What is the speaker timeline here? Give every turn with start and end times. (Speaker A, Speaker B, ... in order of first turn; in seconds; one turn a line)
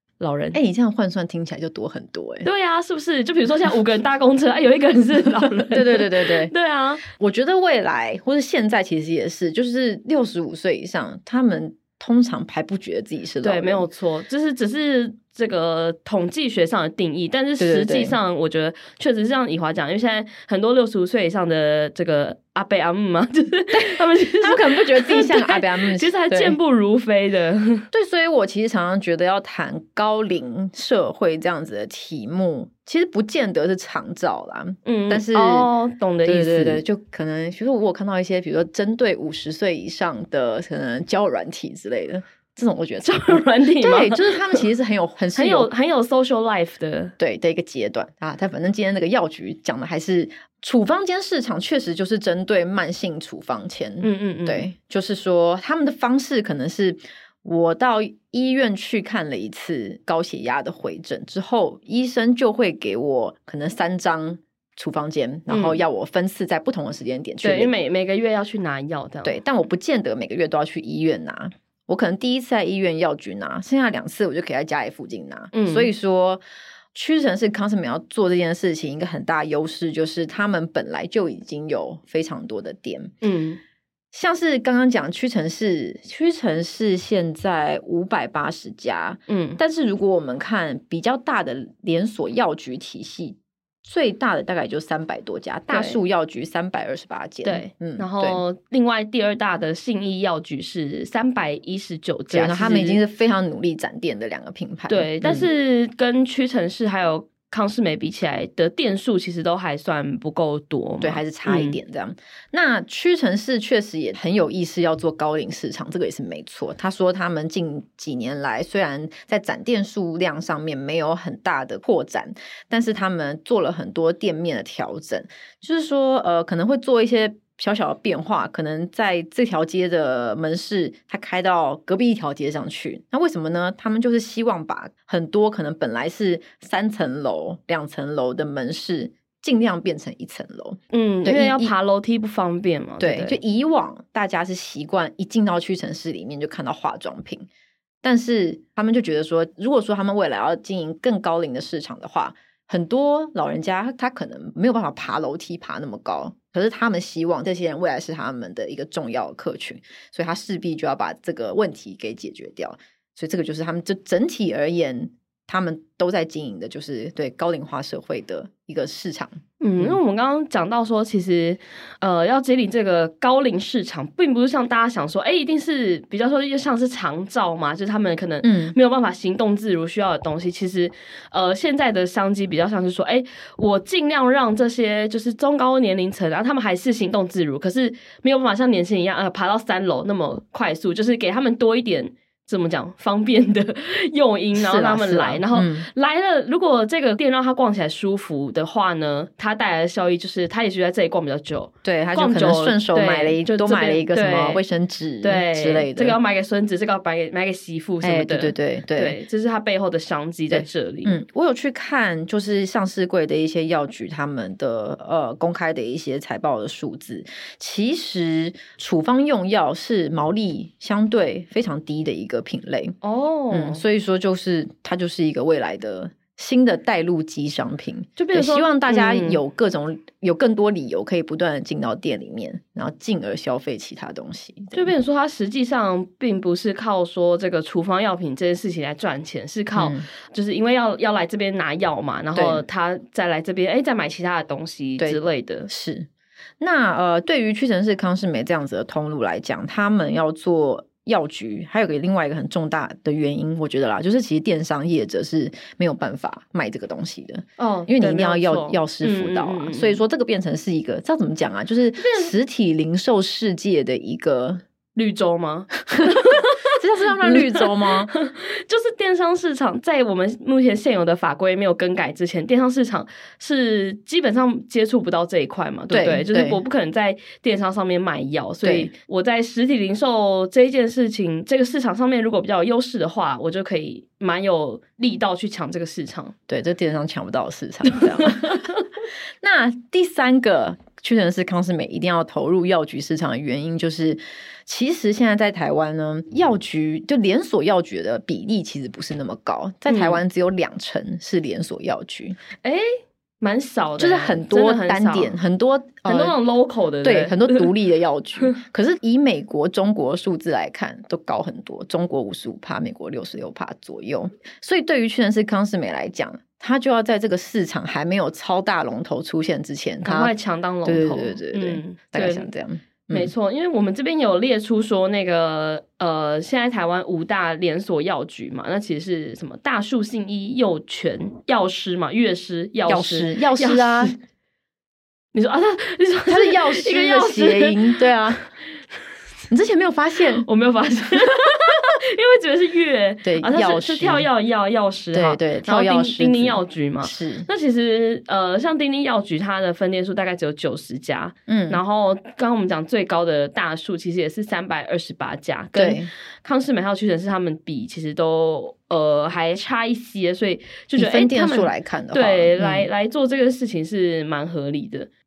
Speaker A: 0.2-0.6
Speaker B: 0.5-2.5
Speaker A: 2.4-7.0
Speaker B: 5.7-6.5
Speaker B: 7.1-13.8
Speaker A: 13.4-27.9
Speaker B: 17.6-18.2
Speaker B: 23.7-26.6
Speaker B: 27.9-35.7
Speaker A: 34.9-36.8
Speaker B: 36.2-45.7
Speaker A: 43.0-44.6
Speaker A: 45.4-47.1
Speaker B: 47.2-67.7
Speaker A: 54.0-54.7
Speaker A: 65.5-65.8
Speaker A: 67.4-69.4
Speaker B: 69.2-76.4
Speaker A: 75.5-75.9
Speaker B: 76.9-83.1
Speaker A: 83.2-83.6
Speaker B: 84.1-98.4
Speaker A: 89.3-89.6
Speaker A: 95.7-96.0
Speaker A: 97.4-103.0
Speaker B: 102.3-105.5
Speaker A: 104.9-111.8
Speaker B: 111.0-141.7
Speaker A: 140.9-143.4
Speaker B: 143.0-147.5
Speaker B: 148.0-170.0
Speaker A: 169.6-204.6
Speaker B: 178.4-178.8
Speaker B: 194.6-195.9
Speaker B: 201.8-206.2
Speaker A: 205.2-211.2
Speaker B: 208.0-209.2
Speaker B: 210.5-223.0
Speaker A: 223.0-223.8
Speaker B: 223.5-234.9
Speaker A: 228.2-229.4
Speaker A: 234.7-245.7
Speaker B: 239.8-240.1
Speaker B: 242.3-242.6
Speaker B: 245.0-246.1
Speaker B: 246.6-264.6
Speaker A: 257.6-260.0
Speaker A: 262.0-262.3
Speaker A: 264.9-286.3
Speaker B: 266.7-268.1
Speaker B: 275.9-276.6
Speaker B: 278.6-278.9
Speaker B: 286.5-288.7
Speaker A: 288.2-288.8
Speaker B: 289.4-302.4
Speaker A: 299.9-300.2
Speaker A: 303.4-305.3
Speaker B: 304.0-306.4
Speaker A: 306.1-307.7
Speaker B: 307.0-320.3
Speaker A: 320.0-322.5
Speaker B: 320.9-323.3
Speaker A: 323.1-334.2
Speaker B: 332.9-334.1
Speaker A: 335.3-338.0
Speaker B: 336.3-338.4
Speaker B: 339.5-340.5
Speaker A: 340.4-365.1
Speaker B: 343.2-344.3
Speaker B: 345.1-347.5
Speaker B: 351.5-351.8
Speaker B: 355.8-356.1
Speaker B: 361.0-362.9